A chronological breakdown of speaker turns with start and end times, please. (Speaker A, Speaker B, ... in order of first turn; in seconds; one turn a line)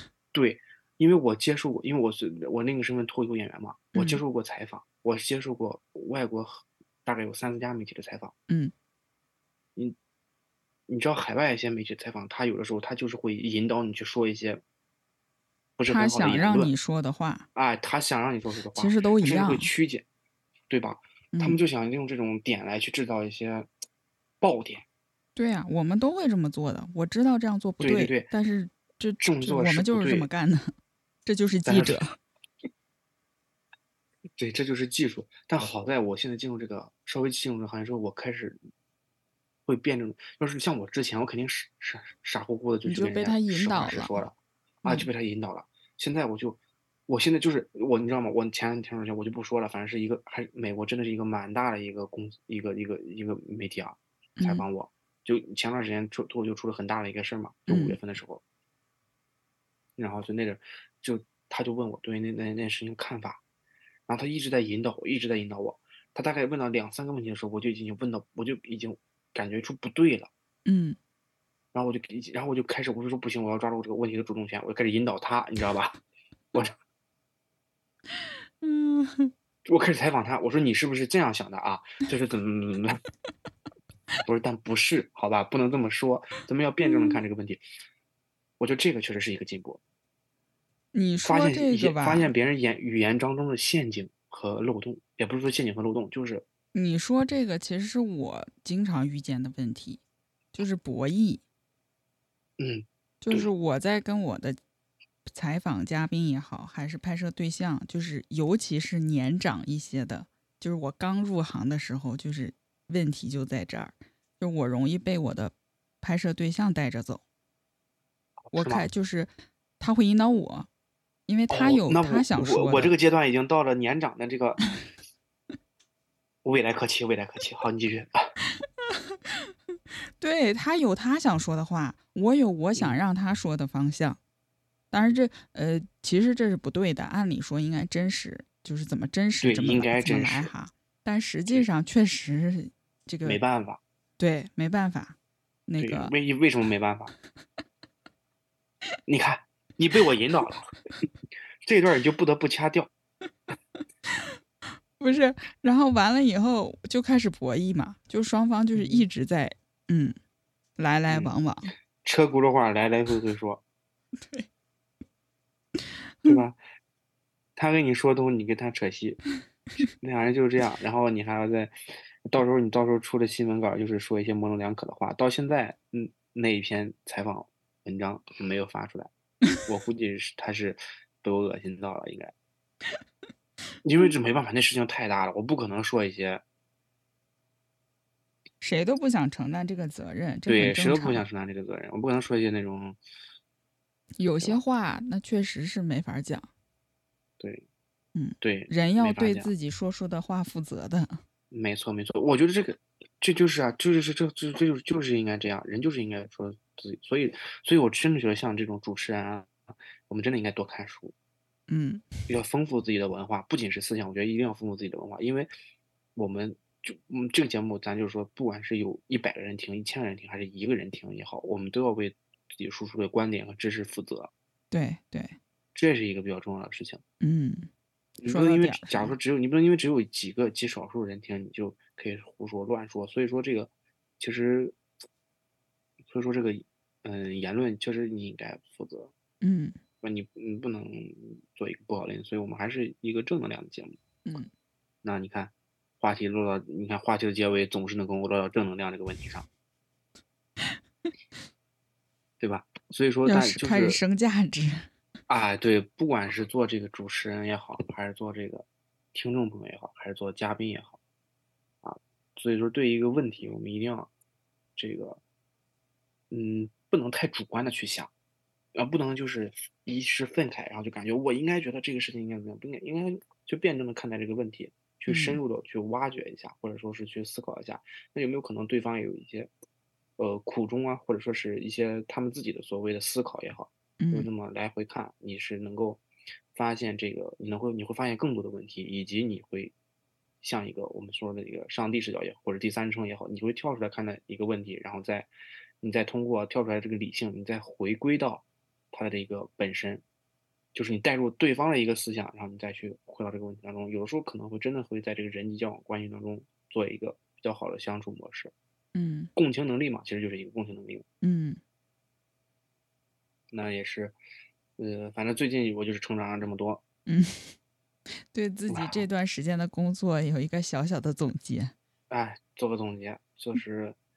Speaker A: 0.3-8.3
Speaker B: 3.9-4.2
Speaker A: 10.9-14.6
Speaker A: 15.8-16.7
Speaker B: 15.9-17.5
Speaker A: 17.5-20.0
Speaker B: 18.7-19.7
Speaker A: 20.7-23.7
Speaker B: 21.3-21.6
Speaker A: 24.4-24.8
Speaker B: 25.4-30.7
Speaker A: 27.8-28.3
Speaker A: 29.2-30.3
Speaker B: 31.2-32.1
Speaker A: 31.6-32.0
Speaker A: 34.4-38.6
Speaker A: 39.6-44.3
Speaker B: 42.9-44.3
Speaker A: 44.8-58.4
Speaker B: 54.4-54.6
Speaker B: 57.7-58.0
Speaker A: 60.0-63.4
Speaker A: 64.1-70.3
Speaker B: 70.7-71.0
Speaker A: 71.7-76.0
Speaker B: 78.6-79.3
Speaker A: 79.6-83.0
Speaker A: 84.2-87.6
Speaker A: 88.6-89.8
Speaker B: 90.9-92.3
Speaker A: 91.2-96.4
Speaker B: 96.7-100.0
Speaker B: 100.5-101.4
Speaker A: 102.6-103.5
Speaker B: 103.2-104.6
Speaker B: 105.3-117.2
Speaker A: 118.5-118.8
Speaker B: 118.5-120.7
Speaker B: 121.3-122.9
Speaker A: 121.5-124.6
Speaker A: 126.4-128.2
Speaker B: 130.2-134.2
Speaker B: 134.9-143.4
Speaker A: 139.4-140.5
Speaker A: 143.2-143.8
Speaker B: 144.2-145.2
Speaker B: 145.7-146.1
Speaker A: 145.8-147.1
Speaker A: 149.1-150.7
Speaker A: 151.6-152.9
Speaker B: 155.0-160.2
Speaker A: 158.7-159.1
Speaker B: 160.8-161.7
Speaker A: 161.1-161.3
Speaker A: 162.0-163.6
Speaker B: 164.2-164.5
Speaker A: 166.2-166.6
Speaker A: 167.6-169.2
Speaker A: 169.8-171.7
Speaker A: 172.3-179.1
Speaker A: 179.6-182.3
Speaker A: 183.8-186.4
Speaker B: 188.6-191.2
Speaker A: 190.4-193.0
Speaker B: 194.2-196.5
Speaker A: 197.4-197.7
Speaker B: 198.1-201.2
Speaker A: 198.4-199.5
Speaker A: 201.5-211.1
Speaker B: 211.7-212.1
Speaker A: 212.3-215.5
Speaker A: 216.2-224.3
Speaker B: 224.7-225.4
Speaker A: 225.7-227.0
Speaker B: 227.2-227.7
Speaker A: 228.2-234.8
Speaker B: 228.3-229.2
Speaker A: 236.0-239.1
Speaker B: 239.4-239.8
Speaker A: 240.0-244.0
Speaker A: 245.0-249.5
Speaker A: 252.4-254.0
Speaker B: 253.2-254.9
Speaker A: 255.3-261.0
Speaker A: 261.8-264.1
Speaker A: 264.8-265.2
Speaker A: 266.3-268.1
Speaker A: 268.7-279.5
Speaker B: 275.1-275.4
Speaker A: 280.2-286.0
Speaker B: 284.0-284.3
Speaker A: 286.5-289.7
Speaker A: 290.4-295.3
Speaker A: 295.8-300.0
Speaker A: 300.7-308.5
Speaker B: 308.9-309.3
Speaker A: 309.4-311.0
Speaker B: 311.2-311.6
Speaker A: 313.5-314.1
Speaker A: 314.8-316.8
Speaker B: 317.1-317.5
Speaker B: 318.3-321.7
Speaker A: 318.7-319.1
Speaker A: 322.1-324.0